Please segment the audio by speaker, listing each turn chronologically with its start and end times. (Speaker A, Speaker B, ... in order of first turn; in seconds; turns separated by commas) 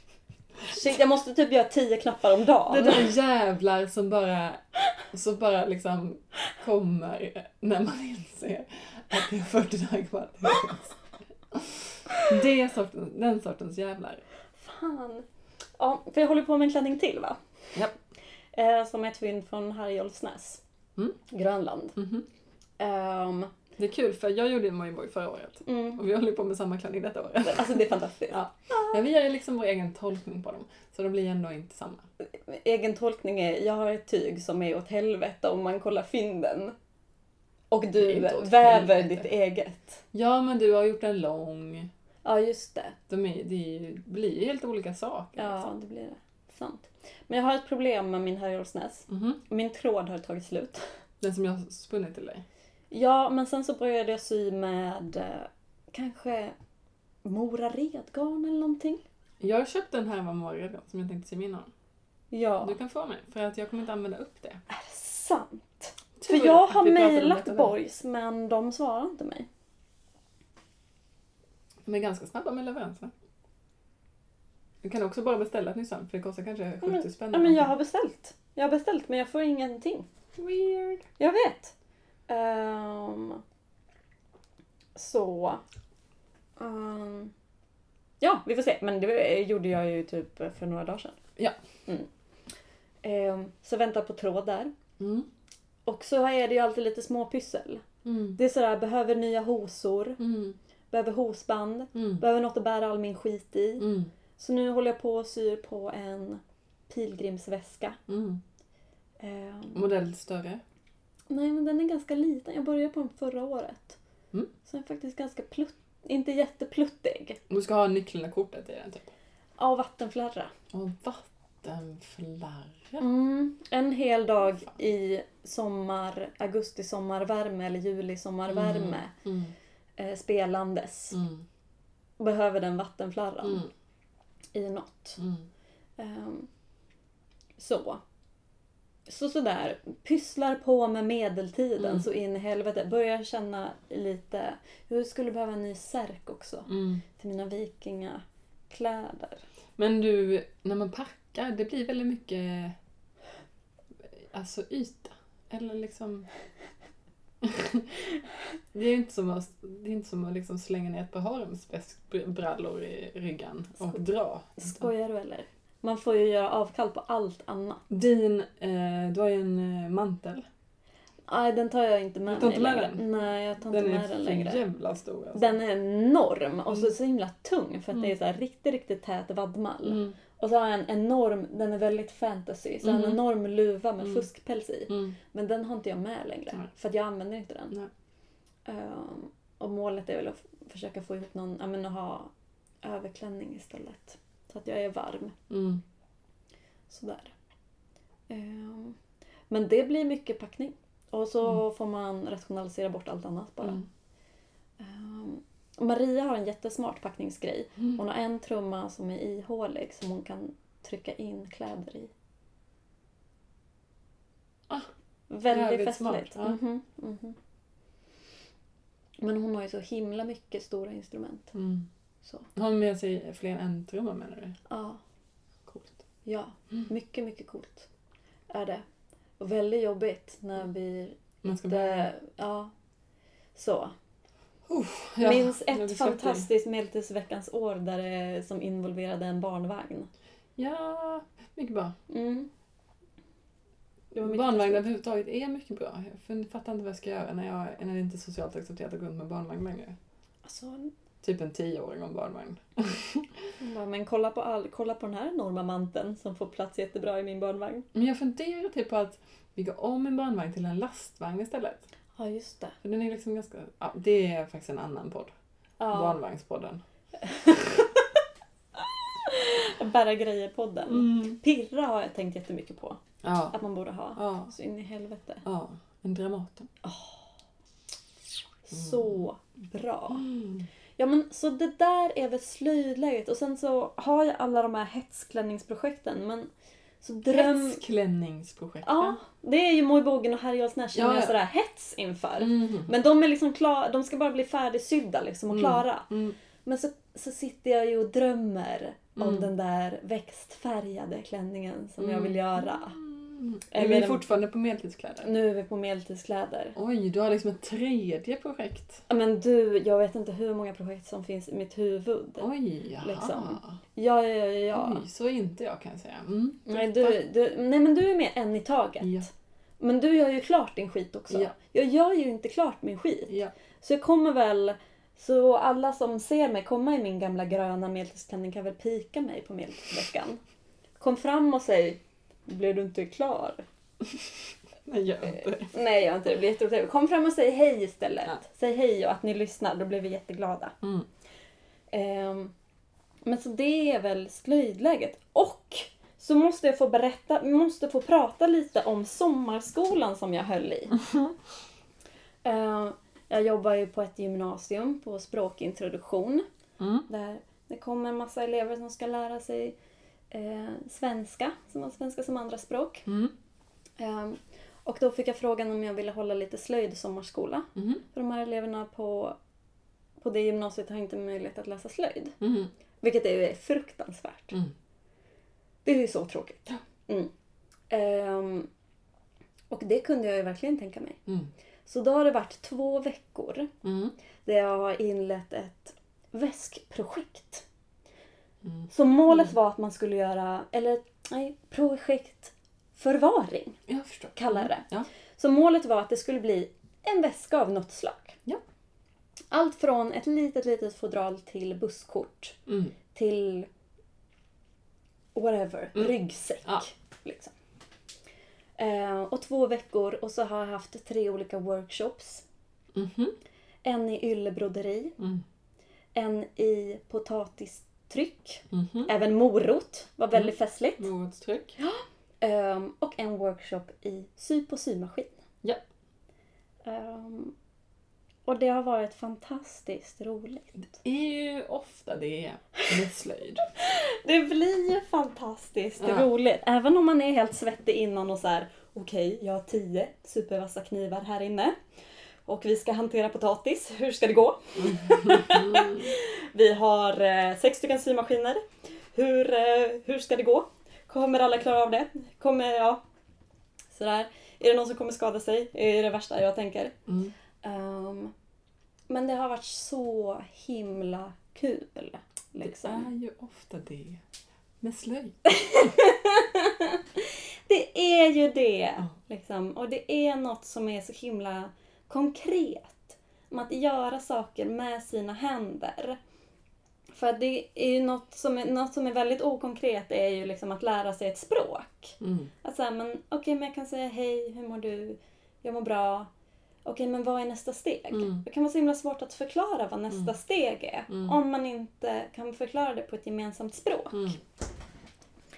Speaker A: 0.7-3.1, Speaker B: 2.7-11.0, Speaker B: 11.5-14.2, Speaker A: 14.6-15.2, Speaker A: 15.8-17.4, Speaker A: 18.5-20.6, Speaker A: 21.3-21.9, Speaker B: 21.9-22.2, Speaker A: 22.8-23.5, Speaker B: 23.8-32.0, Speaker A: 25.6-26.0, Speaker A: 27.4-28.9, Speaker A: 32.3-36.7, Speaker A: 37.7-40.0, Speaker B: 38.0-39.2, Speaker B: 40.1-41.9, Speaker A: 42.2-43.0, Speaker B: 43.1-45.7, Speaker A: 45.4-50.8, Speaker B: 49.1-49.4, Speaker B: 51.2-52.4, Speaker A: 52.9-56.5, Speaker A: 57.2-59.0, Speaker B: 59.4-61.7, Speaker A: 62.3-62.8, Speaker B: 62.6-64.6, Speaker A: 64.7-69.5, Speaker B: 66.2-67.7, Speaker B: 71.8-73.1, Speaker B: 74.8-77.7, Speaker A: 76.8-80.1, Speaker B: 80.3-81.0, Speaker A: 81.2-81.7, Speaker A: 82.3-83.4, Speaker A: 85.0-85.6, Speaker A: 86.6-87.3, Speaker A: 88.2-91.2, Speaker A: 93.0-94.7, Speaker B: 95.0-95.3, Speaker A: 95.8-97.8, Speaker B: 98.0-98.4, Speaker A: 98.3-100.2, Speaker B: 100.2-100.5, Speaker A: 100.9-108.0, Speaker B: 101.9-102.2, Speaker B: 103.8-104.1, Speaker B: 108.1-108.4, Speaker A: 109.2-109.8, Speaker B: 109.7-110.6, Speaker A: 111.3-114.0, Speaker A: 114.6-117.4, Speaker B: 117.5-119.1, Speaker A: 119.6-120.5, Speaker B: 120.7-123.0, Speaker A: 123.0-129.1, Speaker B: 128.5-129.5, Speaker A: 130.0-131.2, Speaker B: 131.1-131.4, Speaker A: 132.2-133.7, Speaker B: 133.4-133.7, Speaker A: 134.5-135.2, Speaker B: 135.2-135.4, Speaker A: 136.0-136.5, Speaker A: 137.6-138.0, Speaker A: 139.1-149.4, Speaker B: 141.8-142.1, Speaker B: 146.7-147.0, Speaker B: 149.8-152.8, Speaker B: 154.2-156.3, Speaker B: 157.4-158.0, Speaker B: 158.7-164.9, Speaker A: 164.6-167.8, Speaker B: 167.9-170.4, Speaker A: 171.3-174.6, Speaker B: 172.3-173.0, Speaker B: 173.7-175.5, Speaker A: 175.3-187.7, Speaker B: 179.8-180.2, Speaker B: 182.8-183.2, Speaker B: 184.9-185.1, Speaker A: 188.7-192.3, Speaker A: 192.8-195.4, Speaker B: 195.5-195.8, Speaker A: 196.9-197.3, Speaker A: 198.3-199.0, Speaker A: 199.5-203.8, Speaker A: 204.8-212.1, Speaker A: 215.3-217.4, Speaker B: 215.5-216.6, Speaker A: 219.2-221.5, Speaker B: 221.5-221.9, Speaker B: 222.6-224.6, Speaker A: 224.7-225.0, Speaker B: 225.7-226.0, Speaker A: 226.2-227.9, Speaker A: 228.5-228.8, Speaker A: 229.4-232.7, Speaker B: 231.4-232.1, Speaker A: 233.6-233.9, Speaker B: 234.7-236.5, Speaker A: 235.2-240.1, Speaker B: 240.6-241.9, Speaker A: 242.1-242.5, Speaker A: 244.1-244.8, Speaker B: 244.2-249.9, Speaker A: 250.4-250.9, Speaker B: 251.2-253.4, Speaker A: 253.6-257.9, Speaker B: 257.9-261.8, Speaker A: 262.1-262.8, Speaker B: 262.8-265.3, Speaker A: 265.8-266.2, Speaker B: 265.9-266.8, Speaker A: 267.2-268.0, Speaker A: 269.1-273.0, Speaker B: 270.9-271.4, Speaker B: 273.2-273.6, Speaker A: 273.5-275.4, Speaker B: 274.1-274.5, Speaker B: 275.4-276.7, Speaker A: 276.8-277.2, Speaker A: 278.7-280.2, Speaker B: 278.7-279.1, Speaker B: 280.1-280.7, Speaker A: 281.0-286.5, Speaker A: 287.0-287.8, Speaker B: 287.3-289.2, Speaker A: 288.8-296.1, Speaker B: 290.9-291.4, Speaker B: 292.4-292.9, Speaker B: 295.5-296.3, Speaker A: 296.6-303.0, Speaker B: 299.2-299.5, Speaker B: 302.0-305.3, Speaker A: 303.7-304.2, Speaker A: 305.2-306.8, Speaker B: 306.8-309.0, Speaker A: 309.1-312.5, Speaker B: 312.4-313.8, Speaker A: 313.0-315.0, Speaker B: 314.7-317.2, Speaker A: 316.7-319.3, Speaker B: 319.0-319.3, Speaker A: 319.8-330.4, Speaker B: 323.3-323.5, Speaker A: 331.0-333.6, Speaker B: 334.8-335.7, Speaker A: 335.3-340.7, Speaker A: 341.9-342.5, Speaker A: 343.2-351.0, Speaker A: 352.4-356.4, Speaker B: 356.8-357.1, Speaker A: 357.1-359.8, Speaker A: 360.3-363.0, Speaker B: 363.1-363.3, Speaker A: 364.0-369.4, Speaker B: 367.8-368.0, Speaker A: 370.2-372.4, Speaker B: 372.4-372.7, Speaker A: 373.0-374.6, Speaker A: 375.8-377.3, Speaker A: 377.9-378.7, Speaker A: 379.7-381.2, Speaker A: 381.9-383.7, Speaker B: 383.8-384.1, Speaker A: 384.4-387.6, Speaker B: 388.6-389.5, Speaker A: 388.9-393.8, Speaker B: 393.9-395.1, Speaker A: 394.3-398.4, Speaker A: 399.5-402.6, Speaker B: 402.7-402.9, Speaker A: 403.1-403.7, Speaker A: 405.3-407.5, Speaker A: 408.8-412.4, Speaker B: 412.9-413.4, Speaker A: 413.8-415.1, Speaker A: 416.1-421.1, Speaker B: 418.7-419.1, Speaker B: 420.3-421.8, Speaker A: 421.8-425.3, Speaker A: 426.8-427.5, Speaker A: 428.5-430.9, Speaker B: 431.0-433.6, Speaker A: 433.8-441.8, Speaker B: 436.0-436.3, Speaker A: 442.5-453.0, Speaker B: 444.8-446.1, Speaker A: 453.9-456.9, Speaker B: 457.1-457.3, Speaker A: 457.6-458.3, Speaker A: 459.1-463.1, Speaker B: 462.6-464.2, Speaker B: 464.8-465.9, Speaker A: 465.5-476.2, Speaker A: 477.1-486.3, Speaker B: 482.2-482.5, Speaker A: 486.8-494.4, Speaker B: 488.1-488.4, Speaker B: 494.1-494.4